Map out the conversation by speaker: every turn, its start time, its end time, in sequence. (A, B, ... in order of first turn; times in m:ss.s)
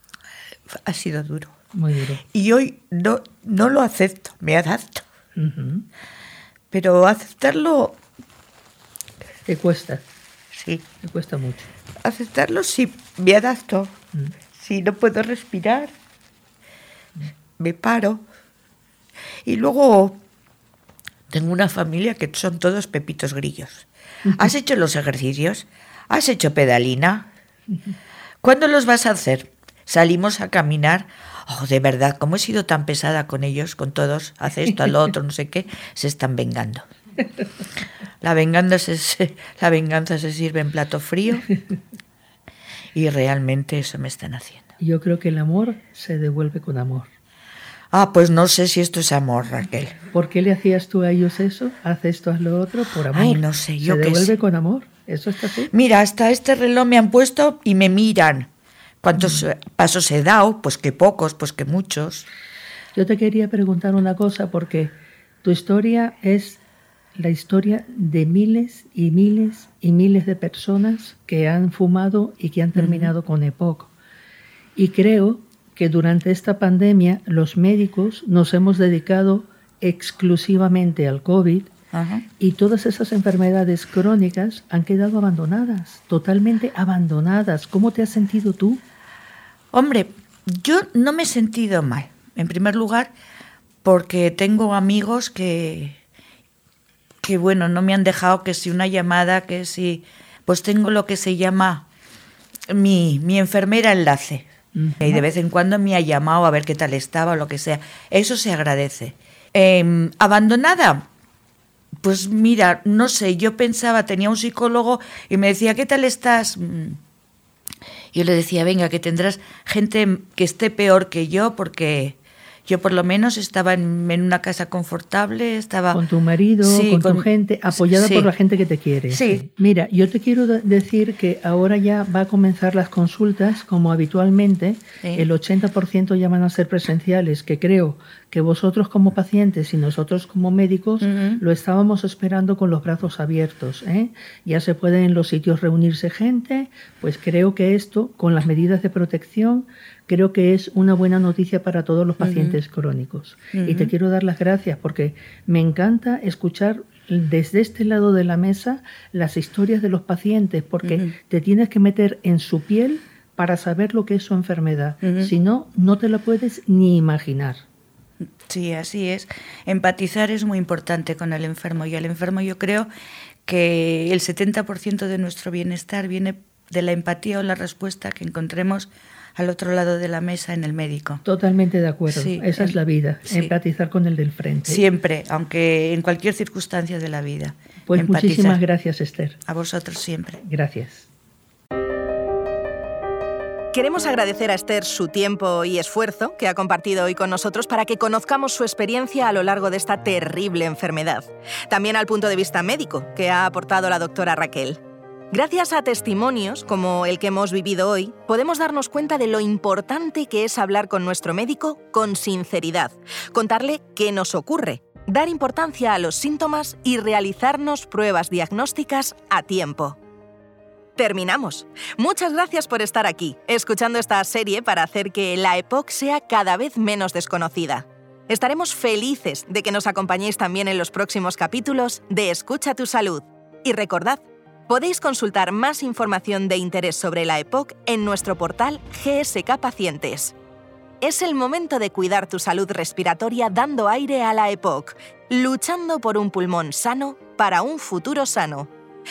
0:00.7-0:01.5 A
0:01.7-0:02.2 B
0:02.2-0:05.0 A
0:05.4-0:05.8 B
0:06.7-0:08.0 A
0:09.4-0:10.0 B
0:10.5-0:10.8 A
0:11.0-0:11.7 B
0:12.0-0:13.9 A
0:14.5-0:15.9 A
0:17.6-0:18.2 A
0:19.4-0:20.2 A
0:21.3-0:27.3 A
0:28.4-0:36.8 A
0:38.2-0:41.5 A
0:42.9-0:44.7 A
0:44.8-0:47.1 B
0:47.9-0:50.0 A
0:50.1-0:55.7 B
0:53.1-0:54.3 A
0:55.7-0:58.5 A
0:59.0-1:02.3 A
1:02.9-1:06.6 B
1:07.2-1:13.9 B
1:12.8-1:13.1 A
1:14.8-1:21.7 B
1:21.9-1:22.3 A
1:22.4-1:28.8 B
1:29.7-1:33.1 A
1:33.8-1:36.0 A
1:37.2-1:41.9 A
1:42.7-1:44.5 A
1:44.7-1:45.2 B
1:45.0-1:51.1 A
1:52.0-1:57.0 A
1:58.1-2:06.0 A
2:05.9-2:47.6 B
2:06.6-2:08.3 A
2:09.1-2:09.4 A
2:15.0-2:15.3 A
2:21.0-2:21.4 A
2:32.2-2:32.6 A
2:33.5-2:33.9 A
2:40.8-2:41.1 A
2:45.0-2:45.3 A
2:48.4-2:52.9 A
2:53.4-3:01.2 A
3:01.2-3:04.8 B
3:02.1-3:03.5 A
3:04.6-3:08.6 A
3:07.8-3:09.4 B
3:09.4-3:10.4 A
3:10.4-3:11.1 B
3:13.7-3:24.8 C
3:25.3-3:40.0 C
3:41.0-4:00.3 C
4:01.0-4:08.7 C